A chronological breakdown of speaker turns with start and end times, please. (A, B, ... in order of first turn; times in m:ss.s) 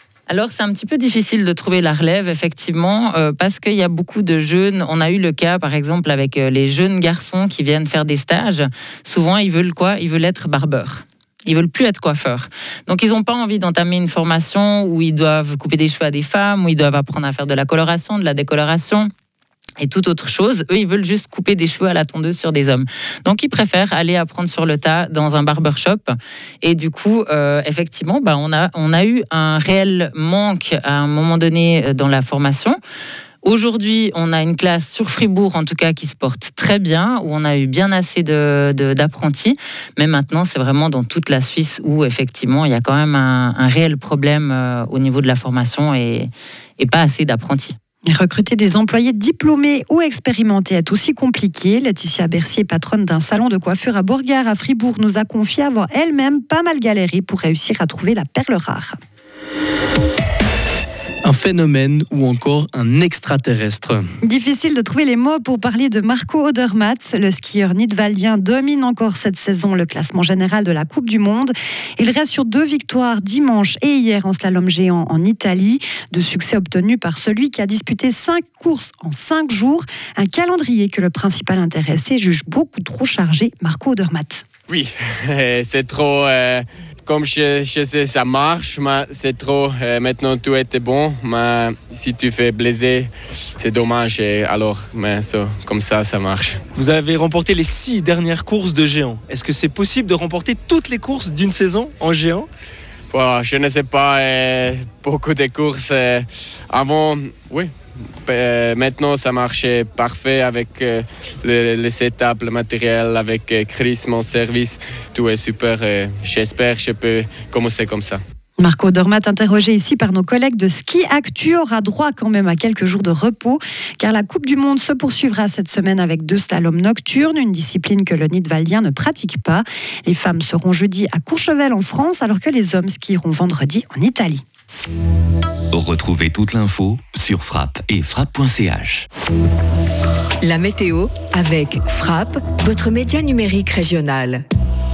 0:00.3-0:19.1 A
0:19.8-0:32.8 A
0:33.4-0:47.8 A
0:48.1-0:59.0 B
1:01.2-1:04.0 C
1:04.2-1:24.4 B
1:24.7-1:36.7 D
1:36.7-1:42.5 E
1:43.1-1:58.2 D
1:58.6-2:14.4 B
2:15.7-2:19.1 F
2:20.4-2:24.4 G